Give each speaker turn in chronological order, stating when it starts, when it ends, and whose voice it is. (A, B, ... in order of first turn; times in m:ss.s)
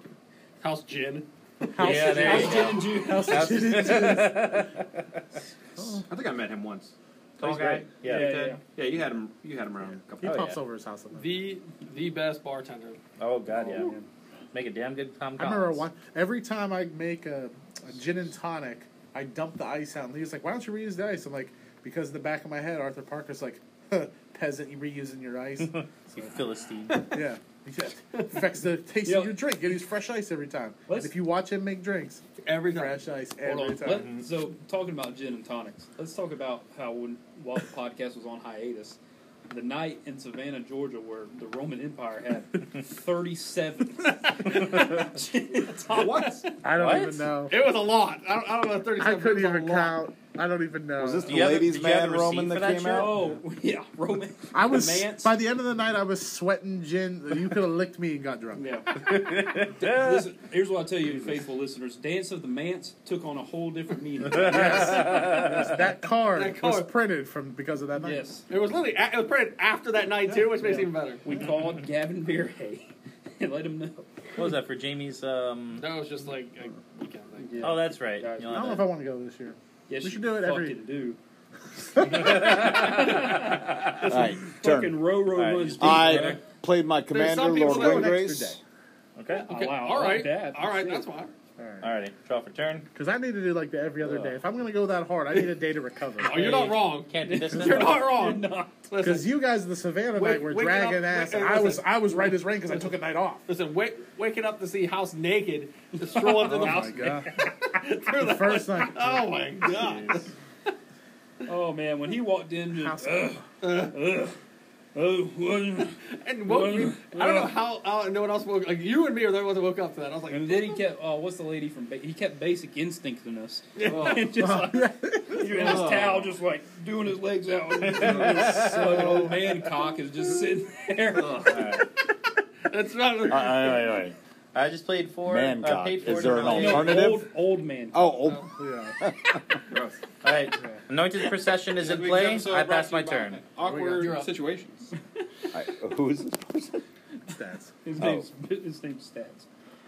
0:00.6-0:02.8 A
0:01.7-0:04.7 B
0:01.8-0:05.2 C
0:01.9-0:03.9 D
0:05.8-0:06.0 B
0:06.1-0:10.4 E
0:07.4-0:08.5 C
0:08.0-0:08.6 D
0:10.2-0:11.3 B
0:10.2-0:10.6 C
0:11.1-0:13.0 A
0:13.2-0:14.0 C
0:13.5-0:14.1 D
0:14.5-0:15.8 C
0:15.4-0:26.4 B
0:25.7-0:27.2 C
0:26.9-0:34.2 B
0:29.0-0:29.4 D
0:30.9-0:31.2 D
0:32.4-0:34.1 A
0:33.8-0:39.0 D
0:39.5-0:46.4 D
0:45.9-0:46.4 E
0:46.6-0:47.6 B
0:46.7-0:47.3 C
0:47.5-0:50.0 A
0:49.0-0:51.4 B
0:51.0-0:53.2 F
0:51.2-0:53.2 C
0:52.9-0:55.4 D
0:54.5-0:59.1 B
0:58.6-1:05.2 D
0:59.0-1:00.3 C
1:04.3-1:08.3 B
1:05.0-1:05.6 C
1:06.3-1:06.9 A
1:08.0-1:08.5 D
1:08.5-1:11.3 A
1:10.3-1:10.6 B
1:10.6-1:14.4 D
1:14.4-1:15.9 C
1:15.8-1:17.7 A
1:17.4-1:18.8 D
1:17.6-1:18.9 C
1:18.5-1:20.8 B
1:19.9-1:21.2 D
1:22.0-1:22.6 B
1:22.1-1:23.8 C
1:22.2-1:26.4 D
1:24.0-1:25.0 F
1:25.3-1:26.4 C
1:25.8-1:28.6 F
1:27.1-1:28.6 A
1:27.7-1:28.4 B
1:29.2-1:29.5 C
1:29.5-1:31.3 A
1:29.5-1:31.1 D
1:31.6-1:31.9 B
1:31.8-1:32.9 C
1:32.9-1:36.6 B
1:36.2-1:39.4 A
1:36.6-1:38.1 C
1:37.2-1:38.8 D
1:39.0-1:43.4 B
1:40.1-1:50.3 A
1:46.1-1:47.1 D
1:46.3-1:47.4 B
1:48.1-1:49.4 B
1:51.5-1:54.4 D
1:52.7-1:53.4 B
1:53.6-1:54.0 A
1:54.9-1:57.5 D
1:56.0-2:00.8 A
2:00.3-2:11.8 D
2:03.8-2:04.5 A
2:04.4-2:05.9 B
2:05.6-2:06.0 E
2:07.8-2:09.1 C
2:08.9-2:09.3 B
2:11.3-2:11.8 C
2:12.7-2:13.8 A
2:13.2-2:14.1 F
2:14.5-2:17.1 C
2:15.2-2:17.3 F
2:16.4-2:18.1 D
2:17.9-2:18.5 F
2:18.6-2:19.0 B
2:19.0-2:19.4 F
2:19.7-2:20.0 E
2:20.2-2:23.5 C
2:21.8-2:24.9 E
2:23.6-2:24.2 B
2:23.9-2:24.3 A
2:25.5-2:26.8 F
2:27.3-2:27.7 B
2:27.8-2:29.5 D
2:28.0-2:28.3 F